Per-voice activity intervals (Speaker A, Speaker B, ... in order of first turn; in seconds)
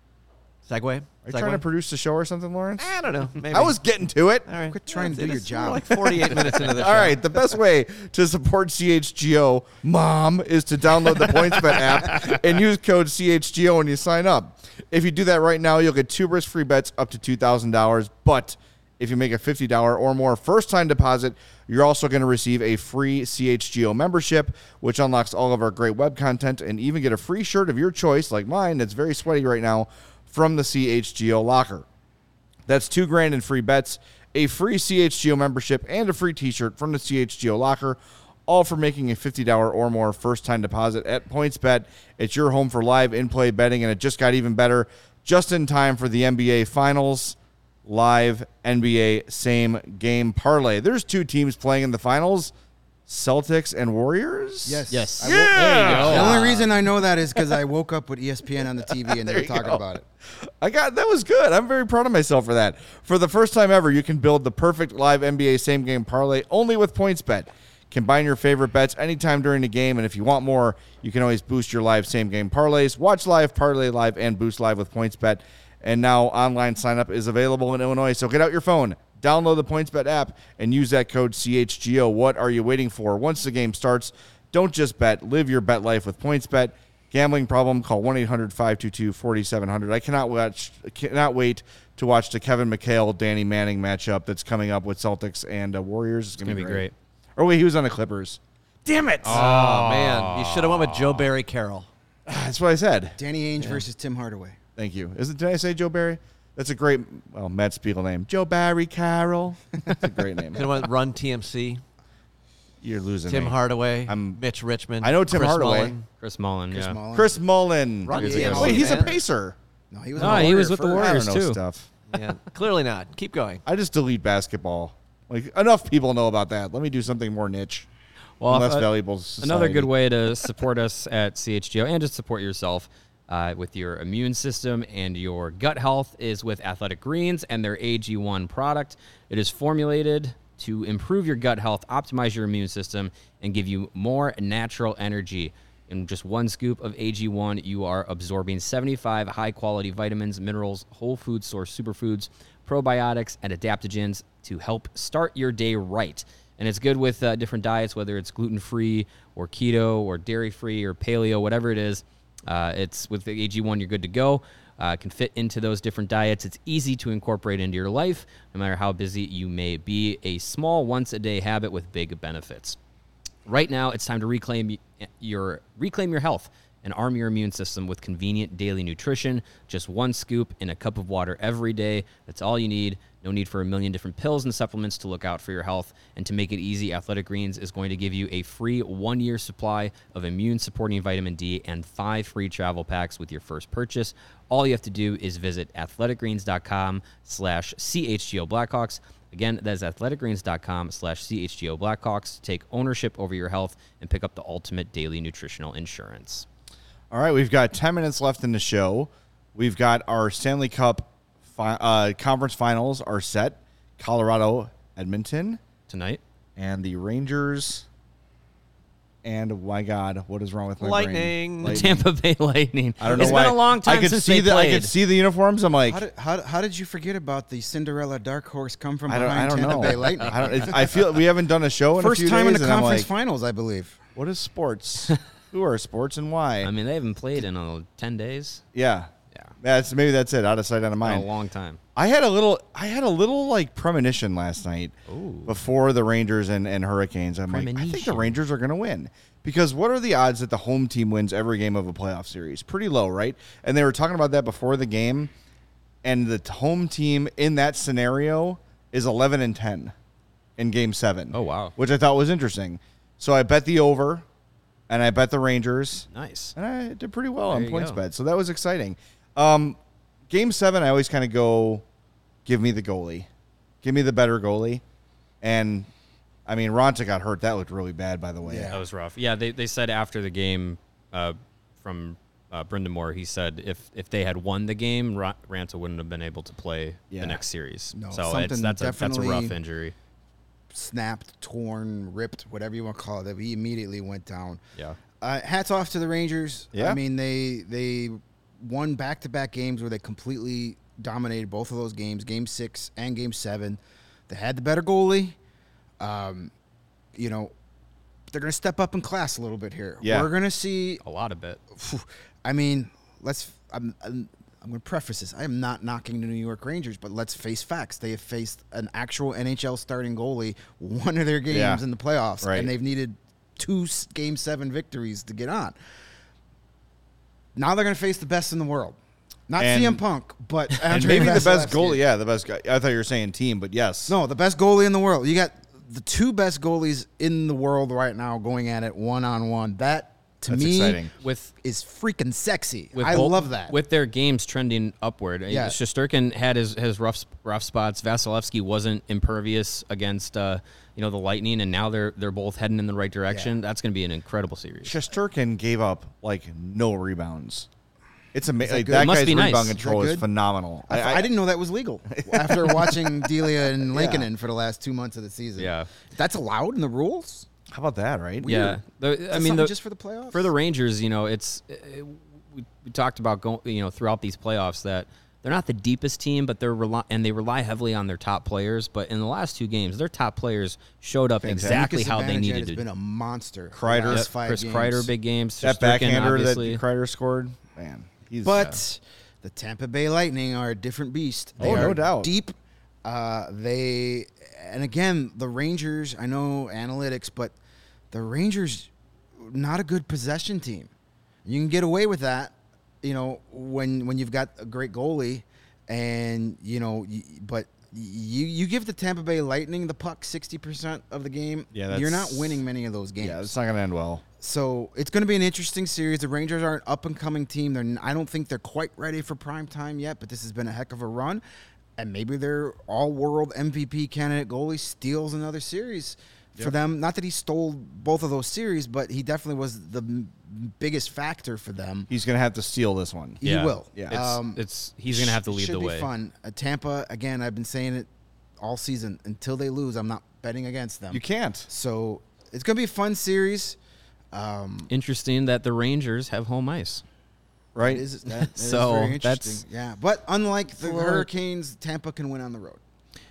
Speaker A: 0.7-1.6, 2.8-3.8, 4.5-7.2, 99.2-101.9, 110.5-111.8, 113.2-116.0, 118.0-119.2, 122.1-123.6, 220.8-221.8
Speaker B: 1.2-2.9, 3.5-4.5, 6.3-31.8, 32.6-52.5, 53.1-56.6, 58.9-96.8, 97.3-99.5, 102.2-103.2, 104.8-110.7, 112.8-114.4, 115.0-115.9, 117.1-119.5, 120.2-121.9, 123.7-127.9, 128.5-129.9, 207.1-215.6, 216.6-217.8, 219.2-222.0, 223.0-226.0, 229.1-233.1, 234.2-236.7, 238.7-239.1, 239.6-241.3, 241.9-244.9, 245.5-255.3, 256.0-259.9, 260.6-264.2, 264.9-269.8, 270.3-271.8, 272.4-273.3, 273.8-274.8, 275.4-275.9, 276.5-278.8, 287.1-287.4, 296.7-297.0, 310.0-310.3, 321.5-321.8, 322.4-322.7, 329.6-330.0, 330.9-334.1, 340.5-341.1, 354.8-357.7, 358.3-361.3, 362.1-364.3, 367.7-368.8, 381.4-381.8, 383.7-384.3, 385.6-388.7, 391.6-392.3, 411.7-412.6, 413.2-414.2, 432.1-433.4, 433.9-434.2, 441.1-441.7, 447.7-448.0
Speaker C: 4.6-6.5, 54.6-60.0, 103.2-104.6, 116.7-117.4, 118.2-119.1, 119.9-121.2, 225.8-231.0, 231.9-234.0, 278.4-278.8, 287.9-289.6, 290.7-294.6, 295.2-305.4, 306.0-306.5, 307.1-307.5, 308.3-311.0, 311.7-325.7, 327.6-329.0, 329.5-332.0, 334.1-343.8, 345.5-345.8, 353.3-353.6, 358.6-360.2, 360.9-367.4, 369.3-370.5, 381.5-385.1, 388.4-397.5, 398.1-400.9, 401.4-413.5, 414.4-421.4, 422.0-432.1, 433.4-443.8, 444.3-444.9, 447.8-452.8
Speaker D: 54.9-56.6, 96.4-96.9, 99.2-101.2, 116.2-117.0, 118.1-119.0, 120.2-121.6, 128.4-172.8, 173.4-206.4, 215.9-216.2, 221.6-224.9, 236.6-238.6, 241.0-241.8, 245.1-245.5, 247.5-248.4, 261.3-261.7, 266.1-266.6, 267.5-268.0, 278.7-289.9, 311.0-311.6, 330.9-331.4, 341.2-341.5, 342.9-355.0, 358.9-359.8, 365.6-365.9, 368.4-369.7, 370.3-382.8, 384.1-386.8, 433.4-436.1, 444.9-447.0, 448.3-449.6, 450.8-451.3